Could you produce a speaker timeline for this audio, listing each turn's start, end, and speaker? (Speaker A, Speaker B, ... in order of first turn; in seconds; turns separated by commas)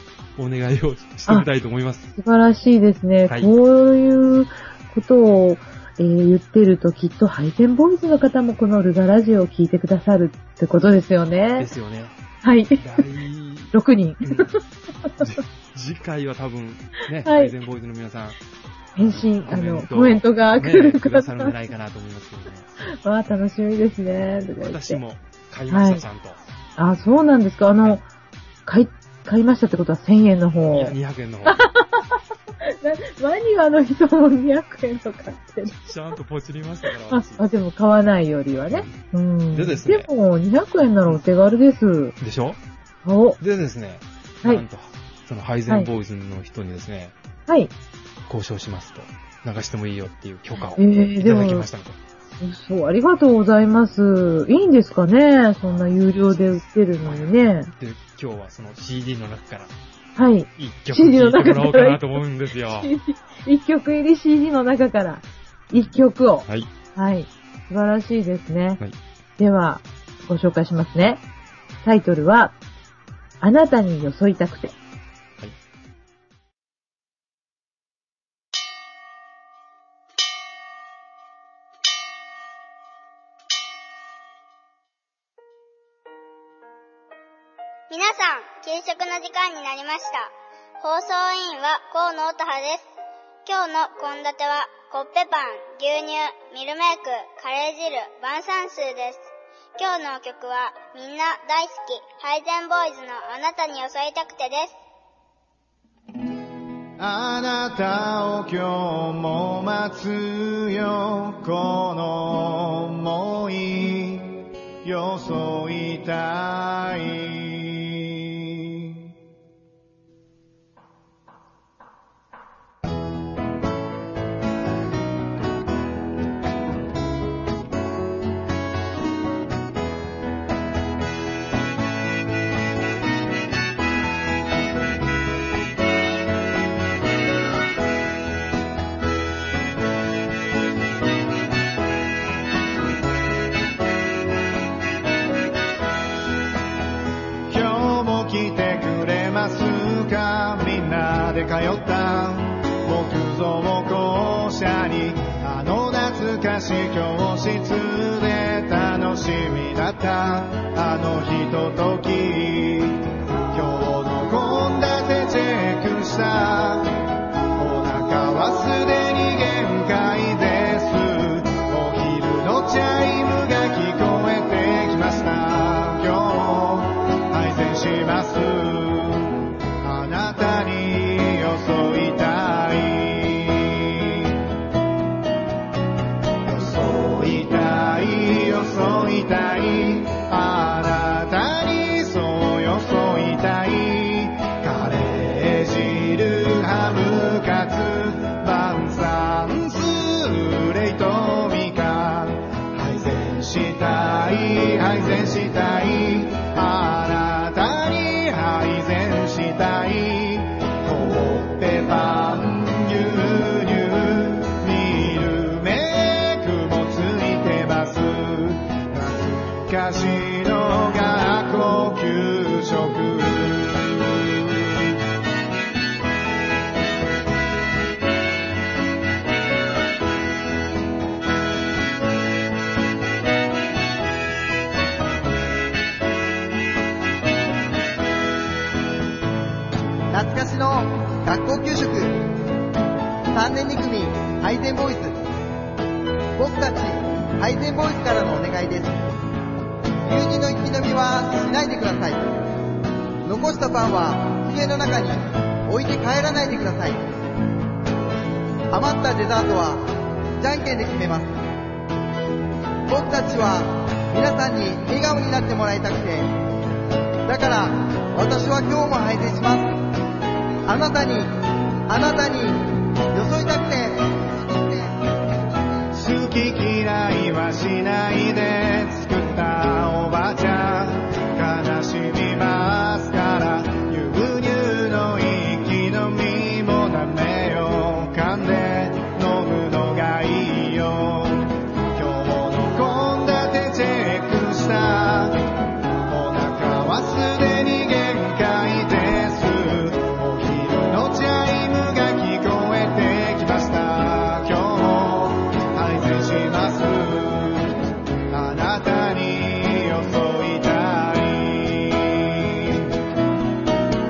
Speaker A: 0.4-2.1, Speaker B: 2.2-11.7, Speaker A: 3.3-3.5, Speaker A: 11.6-12.2, Speaker B: 12.4-13.0, Speaker A: 12.8-14.5, Speaker B: 13.7-15.3, Speaker A: 15.2-18.4, Speaker B: 17.2-17.5, Speaker B: 18.9-21.5, Speaker A: 19.0-22.7, Speaker B: 23.0-25.0, Speaker A: 24.6-26.4, Speaker B: 25.7-26.0, Speaker B: 26.8-28.0, Speaker B: 28.7-35.8, Speaker A: 30.7-31.6, Speaker A: 35.7-37.5, Speaker B: 36.9-42.2, Speaker A: 38.7-39.0, Speaker A: 39.5-40.1, Speaker A: 42.2-42.6, Speaker B: 43.0-43.4, Speaker A: 43.4-47.1, Speaker A: 48.3-52.0, Speaker B: 50.8-51.7, Speaker B: 52.4-57.7, Speaker A: 55.6-59.7, Speaker B: 60.2-68.8, Speaker A: 60.6-62.9, Speaker A: 66.5-66.7, Speaker B: 69.4-71.2, Speaker B: 71.8-72.5, Speaker B: 73.4-74.8, Speaker C: 87.9-92.9, Speaker C: 93.5-104.8, Speaker D: 107.0-119.0, Speaker D: 147.5-167.0, Speaker D: 167.6-184.4, Speaker D: 186.4-224.8, Speaker E: 240.1-242.3, Speaker E: 243.3-245.2, Speaker E: 246.4-249.2, Speaker E: 250.0-252.3, Speaker E: 253.2-257.1, Speaker E: 258.7-259.8, Speaker E: 260.4-261.4, Speaker E: 262.9-266.3, Speaker E: 267.3-269.8, Speaker E: 270.7-271.3, Speaker E: 271.9-274.9, Speaker D: 275.9-307.8, Speaker D: 308.3-312.9